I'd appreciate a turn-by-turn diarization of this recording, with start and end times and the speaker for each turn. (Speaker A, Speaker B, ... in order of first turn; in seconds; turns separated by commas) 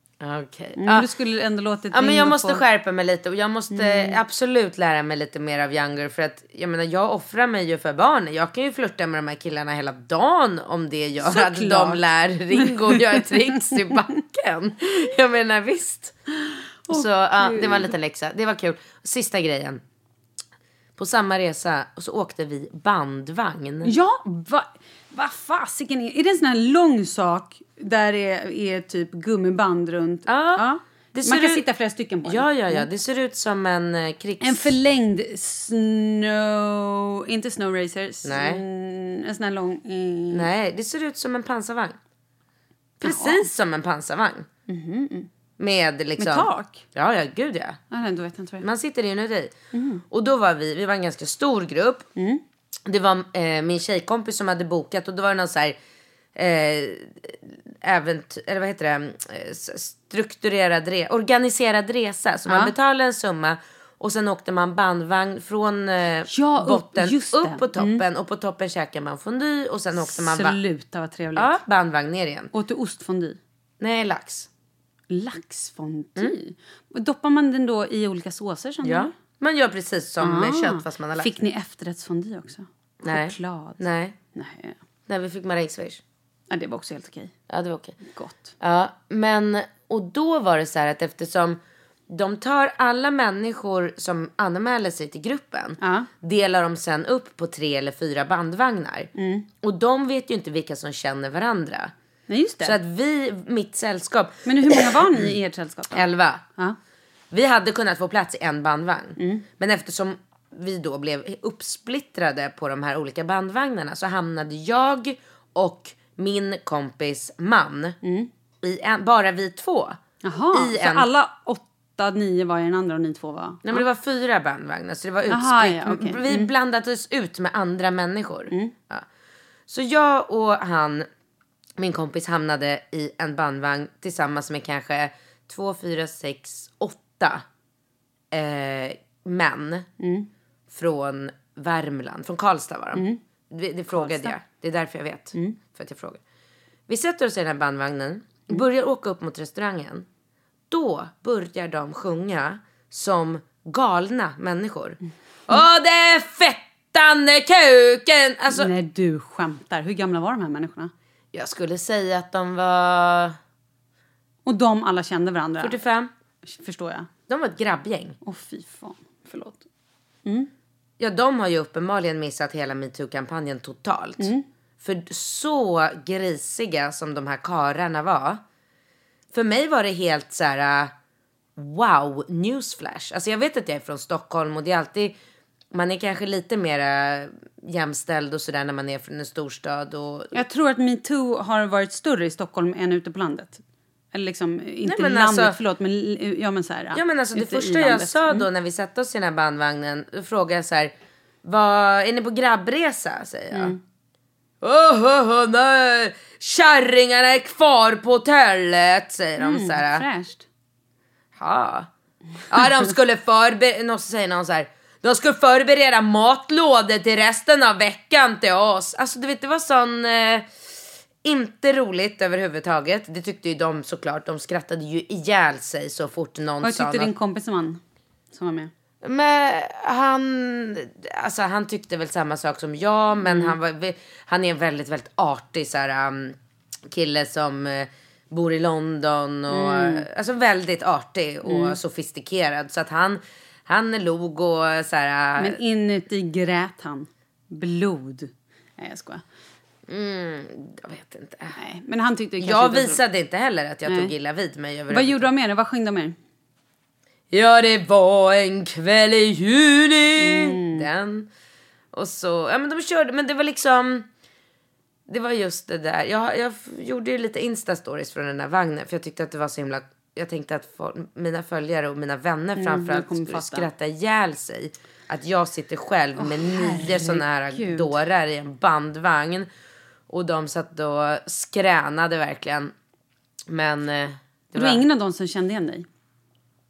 Speaker A: 0.2-1.1, Speaker B: 0.8-2.6, Speaker A: 1.9-16.1, Speaker B: 3.7-4.2, Speaker B: 11.2-12.0, Speaker B: 12.6-13.3, Speaker B: 16.9-17.9, Speaker A: 16.9-19.8, Speaker A: 21.0-23.9, Speaker B: 23.8-32.9, Speaker A: 30.3-31.6, Speaker A: 32.2-34.7, Speaker B: 34.4-40.5, Speaker A: 38.2-38.6, Speaker A: 40.3-42.0, Speaker A: 43.0-44.5, Speaker B: 43.0-43.5, Speaker B: 44.7-45.3, Speaker A: 45.6-47.8, Speaker B: 46.2-46.8, Speaker B: 47.9-48.6, Speaker A: 48.6-49.5, Speaker B: 49.7-50.0, Speaker A: 50.1-52.1, Speaker B: 52.2-52.4, Speaker A: 52.9-55.8, Speaker A: 56.3-70.6, Speaker B: 62.5-62.7, Speaker B: 66.3-68.0, Speaker B: 70.0-71.5, Speaker A: 71.3-72.5, Speaker B: 72.5-73.4, Speaker A: 73.8-74.5, Speaker B: 75.1-79.1, Speaker A: 78.8-81.3, Speaker B: 80.2-83.8, Speaker A: 83.0-84.2, Speaker B: 84.3-84.8, Speaker A: 85.1-86.0, Speaker B: 86.5-87.3, Speaker A: 87.5-88.0, Speaker B: 88.0-88.5, Speaker A: 88.6-99.1, Speaker B: 95.8-96.1, Speaker B: 99.2-99.5, Speaker A: 99.6-101.9, Speaker B: 102.3-102.8, Speaker A: 102.6-105.3, Speaker B: 104.5-106.0, Speaker A: 105.9-106.4, Speaker A: 107.3-118.0, Speaker B: 109.2-109.5, Speaker B: 118.0-118.3, Speaker A: 118.6-120.0, Speaker B: 120.2-123.8, Speaker A: 120.5-121.1, Speaker A: 123.6-129.0, Speaker B: 125.3-126.5, Speaker A: 129.7-131.1, Speaker A: 131.8-137.4, Speaker A: 138.3-139.9, Speaker B: 140.0-140.3, Speaker A: 140.7-146.2, Speaker B: 142.9-143.2, Speaker B: 143.9-144.3, Speaker A: 146.9-150.1, Speaker A: 150.7-158.7, Speaker B: 158.5-160.9, Speaker A: 161.3-163.4, Speaker B: 164.4-165.8, Speaker A: 165.6-166.1, Speaker B: 166.4-167.1, Speaker A: 167.3-168.2, Speaker B: 168.2-169.6, Speaker B: 170.2-170.5, Speaker A: 171.0-178.4, Speaker B: 174.2-174.4, Speaker A: 179.3-180.9, Speaker A: 181.6-185.2, Speaker A: 185.7-190.3, Speaker B: 190.3-193.6, Speaker B: 194.1-198.5, Speaker A: 194.8-195.6, Speaker A: 196.9-200.9, Speaker A: 201.4-203.8, Speaker B: 203.5-203.8, Speaker A: 204.6-210.0, Speaker B: 209.4-210.4, Speaker A: 211.3-211.9, Speaker A: 212.5-220.5, Speaker A: 221.2-227.1, Speaker B: 226.6-227.8, Speaker B: 228.3-228.7, Speaker A: 229.0-236.3, Speaker B: 233.2-233.5, Speaker A: 236.9-245.6, Speaker B: 239.5-240.1, Speaker B: 241.4-241.8, Speaker B: 245.4-249.2, Speaker A: 249.9-251.6, Speaker B: 251.6-253.0, Speaker A: 252.4-255.3, Speaker B: 253.8-254.1, Speaker B: 254.9-256.1, Speaker A: 257.3-261.3, Speaker B: 260.2-260.9, Speaker A: 261.9-264.1, Speaker A: 265.1-279.5, Speaker B: 272.6-273.7, Speaker B: 276.2-277.9, Speaker A: 280.1-282.7, Speaker A: 283.5-284.8, Speaker B: 284.5-285.9